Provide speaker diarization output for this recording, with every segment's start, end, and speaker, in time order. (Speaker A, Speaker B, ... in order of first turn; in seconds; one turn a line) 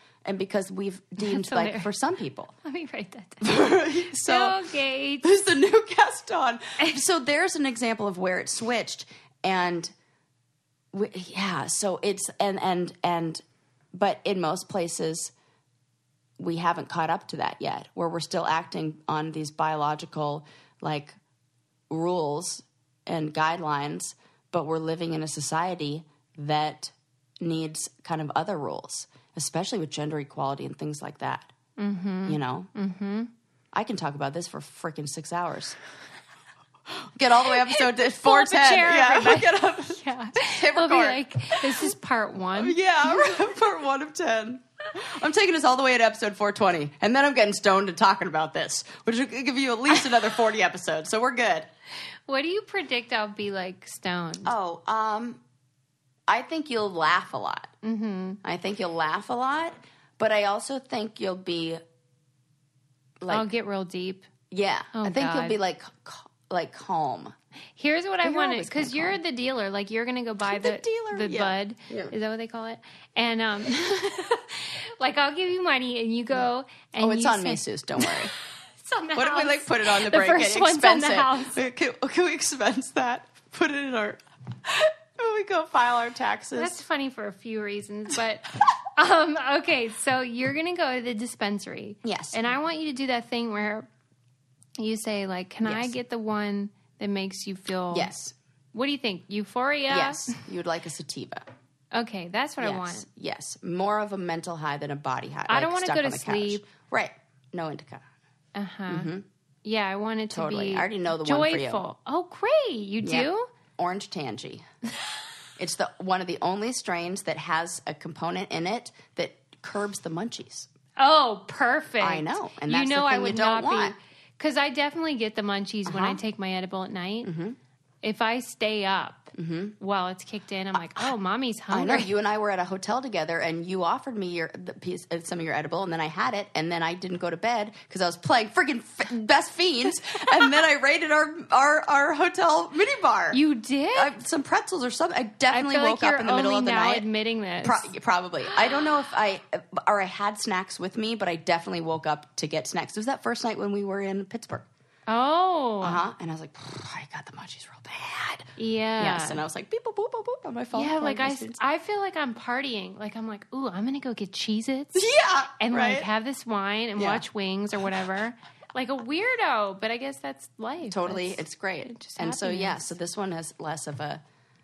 Speaker A: 0.2-2.5
Speaker B: 1.2-1.9
Speaker B: 2.6-5.3
Speaker A: 3.4-4.6
Speaker A: 5.2-9.9
Speaker A: 10.9-15.3
Speaker A: 16.4-21.2
Speaker A: 21.9-31.5
Speaker B: 31.8-33.3
Speaker A: 32.3-32.7
Speaker A: 33.7-35.8
Speaker A: 36.9-41.9
Speaker B: 37.6-43.4
Speaker A: 42.6-51.7
Speaker B: 52.3-54.5
Speaker A: 54.4-55.4
Speaker A: 56.3-57.7
Speaker B: 57.8-58.4
Speaker A: 58.4-61.8
Speaker A: 63.2-63.5
Speaker B: 63.3-64.3
Speaker A: 64.5-67.3
Speaker B: 64.9-65.6
Speaker B: 67.8-78.3
Speaker A: 68.2-69.2
Speaker A: 70.5-72.1
Speaker A: 77.0-78.3
Speaker B: 78.8-81.6
Speaker A: 79.2-86.7
Speaker B: 86.5-93.9
Speaker A: 92.0-92.4
Speaker B: 94.8-98.1
Speaker A: 95.6-95.9
Speaker A: 97.9-98.3
Speaker B: 98.7-100.4
Speaker A: 99.9-101.5
Speaker B: 101.9-103.1
Speaker A: 102.6-108.1
Speaker B: 105.5-106.6
Speaker B: 108.5-109.1
Speaker A: 108.9-109.2
Speaker B: 109.7-113.5
Speaker A: 110.3-111.8
Speaker A: 113.0-114.7
Speaker A: 115.6-120.7
Speaker B: 121.0-127.3
Speaker A: 122.0-124.0
Speaker A: 125.9-126.2
Speaker A: 127.2-127.6
Speaker B: 128.0-132.1
Speaker A: 129.3-129.8
Speaker A: 130.7-131.1
Speaker A: 131.7-143.4
Speaker B: 143.3-144.1
Speaker A: 143.9-147.1
Speaker B: 145.5-147.9
Speaker A: 147.6-154.7
Speaker B: 155.1-156.0
Speaker A: 155.8-161.6
Speaker B: 158.6-159.4
Speaker B: 160.7-172.9
Speaker A: 164.9-166.1
Speaker A: 167.0-167.2
Speaker A: 170.8-174.2